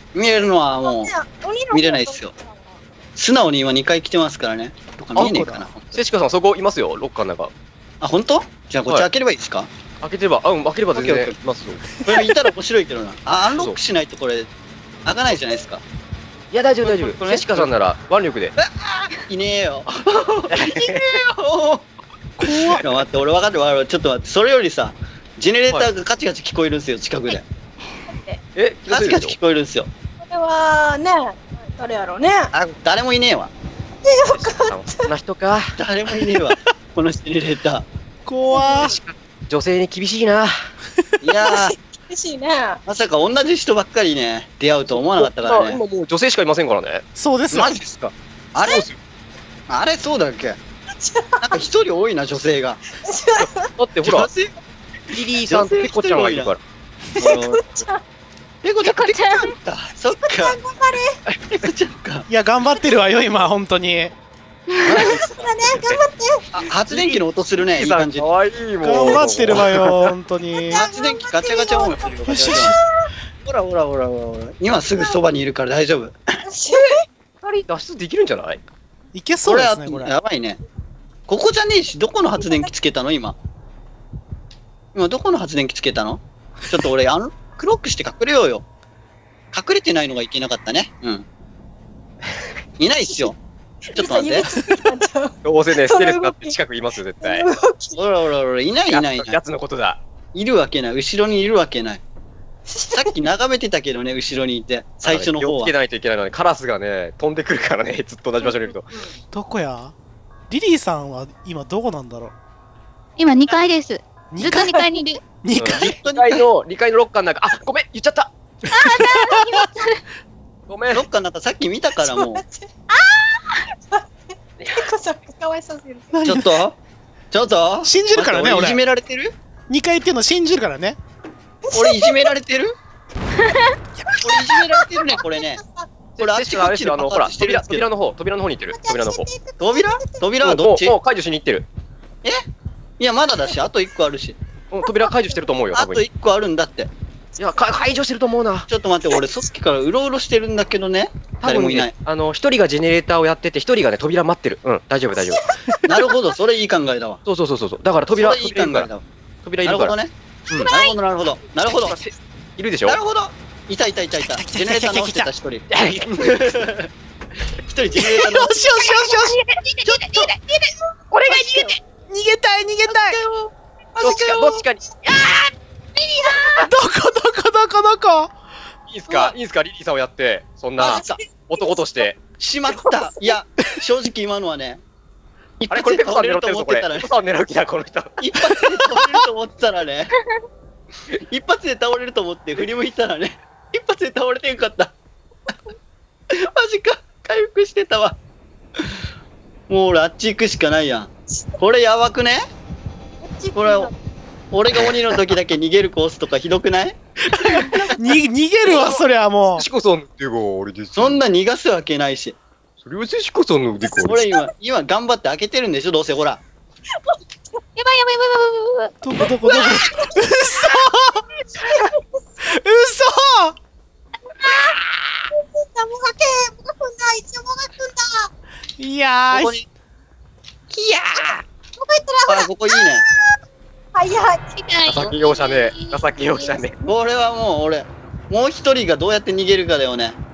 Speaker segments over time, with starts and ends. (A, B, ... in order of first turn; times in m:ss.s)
0:00.1-0:01.1 A
0:00.8-0:02.8 B
0:01.7-0:02.3 A
0:03.2-0:06.0 A
0:05.2-0:07.5 C
0:05.2-0:05.7 D
0:08.0-0:09.7 A
0:10.0-0:11.8 C
0:10.9-0:11.4 A
0:12.0-0:14.5 A
0:15.0-0:15.8 A
0:16.5-0:18.5 C
0:16.8-0:17.7 A
0:18.6-0:21.9 A
0:20.5-0:21.1 C
0:22.4-0:22.8 D
0:22.8-0:27.5 A
0:28.1-0:28.4 B
0:28.6-0:29.4 C
0:28.9-0:29.9 A
0:30.2-0:32.5 B
0:32.5-0:33.5 A
0:34.0-0:35.1 B
0:34.3-0:35.8 C
0:35.8-0:37.9 A
0:38.2-0:39.0 D
0:38.4-0:39.0 B
0:38.7-0:40.7 C
0:41.2-0:41.8 A
0:41.4-0:42.8 B
0:42.8-0:45.8 A
0:44.9-0:47.0 C
0:47.2-0:47.7 D
0:47.5-0:48.9 A
0:48.6-0:48.9 C
0:49.7-0:50.6 A
0:51.0-0:51.6 B
0:51.4-0:52.8 A
0:52.9-0:53.7 B
0:53.4-0:54.3 C
0:54.0-0:54.5 A
0:55.1-0:56.6 C
0:55.1-0:56.5 A
0:57.2-0:57.7 A
0:57.2-0:58.0 B
0:58.6-1:00.6 A
0:58.8-0:59.5 E
1:00.1-1:01.2 B
1:01.3-1:02.3 A
1:02.3-1:04.1 D
1:04.8-1:05.2 A
1:04.8-1:06.4 B
1:04.9-1:06.0 C
1:06.5-1:08.3 A
1:06.7-1:10.1 C
1:08.8-1:10.8 D
1:09.1-1:09.7 A
1:10.5-1:13.1 B
1:10.7-1:12.8 A
1:12.2-1:12.8 D
1:13.4-1:16.2 A
1:16.4-1:17.6 B
1:17.7-1:18.6 C
1:19.1-1:20.1 D
1:19.4-1:20.6 A
1:21.3-1:23.4 A
1:22.4-1:22.7 B
1:24.9-1:28.6 A
1:29.5-1:31.2 A
1:32.8-1:33.4 A
1:33.9-1:36.6 B
1:33.9-1:34.5 A
1:35.4-1:37.5 C
1:37.2-1:38.0 B
1:38.0-1:39.4 A
1:38.9-1:40.0 C
1:40.3-1:42.0 A
1:42.7-1:43.3 B
1:42.9-1:45.7 A
1:45.0-1:48.9 C
1:49.3-1:49.9 D
1:50.5-1:52.3 D
1:53.2-1:55.2 E
1:54.3-1:55.9 D
1:55.6-1:58.3 C
1:55.6-1:56.4 A
1:58.7-1:59.7 D
1:58.7-2:00.0 E
2:00.7-2:01.0 C
2:00.9-2:02.4 A
2:02.0-2:06.2 B
2:04.6-2:04.8 C
2:06.1-2:06.6 D
2:06.2-2:06.8 A
2:07.3-2:09.3 A
2:07.8-2:08.8 D
2:09.7-2:11.0 D
2:11.6-2:12.3 B
2:11.7-2:12.7 A
2:13.4-2:13.8 E
2:14.1-2:15.9 B
2:14.2-2:15.6 A
2:16.2-2:19.3 C
2:16.2-2:17.9 A
2:18.7-2:20.3 B
2:19.6-2:20.9 A
2:20.4-2:21.7 C
2:23.0-2:24.4 A
2:24.7-2:26.0 C
2:24.8-2:25.5 B
2:25.7-2:26.9 A
2:27.4-2:27.9 B
2:27.4-2:28.7 C
2:28.7-2:31.9 A
2:29.1-2:29.4 B
2:31.4-2:35.7 C
2:35.1-2:36.2 B
2:35.8-2:37.2 A
2:37.2-2:38.9 C
2:38.1-2:39.0 A
2:39.4-2:39.9 C
2:39.6-2:42.0 A
2:40.7-2:41.0 B
2:41.6-2:43.0 C
2:42.8-2:46.9 A
2:44.3-2:45.3 D
2:45.7-2:46.5 C
2:47.6-2:49.2 A
2:47.9-2:49.4 D
2:49.0-2:51.8 C
2:49.8-2:50.3 A
2:51.2-2:51.7 A
2:52.1-2:53.2 D
2:52.9-2:54.6 A
2:54.0-2:56.7 C
2:56.6-2:58.3 D
2:58.9-3:02.2 C
2:59.1-2:59.3 B
3:00.8-3:01.2 A
3:00.8-3:02.1 B
3:02.4-3:04.8 A
3:02.7-3:03.2 B
3:05.6-3:07.1 A
3:05.7-3:08.1 C
3:08.2-3:10.1 A
3:08.8-3:09.2 D
3:11.3-3:14.9 A
3:16.3-3:18.2 A
3:19.7-3:22.4 A
3:23.2-3:24.0 B
3:23.5-3:23.9 A
3:24.5-3:27.9 A
3:24.7-3:25.2 C
3:27.3-3:29.6 D
3:28.6-3:29.0 C
3:29.6-3:31.2 C
3:30.9-3:32.4 A
3:32.8-3:34.2 C
3:33.8-3:34.5 B
3:34.0-3:36.4 A
3:37.0-3:37.6 B
3:37.8-3:38.9 E
3:39.0-3:41.2 D
3:39.2-3:40.7 B
3:39.4-3:39.8 E
3:41.5-3:42.6 B
3:42.4-3:43.6 D
3:44.4-3:44.8 B
3:45.3-3:48.3 B
3:48.8-3:49.6 D
3:49.3-3:49.6 A
3:50.7-3:51.4 C
3:51.1-3:53.4 B
3:52.3-3:53.0 A
3:53.9-3:54.6 B
3:54.6-3:56.7 E
3:54.9-3:56.7 C
3:56.8-4:00.2 A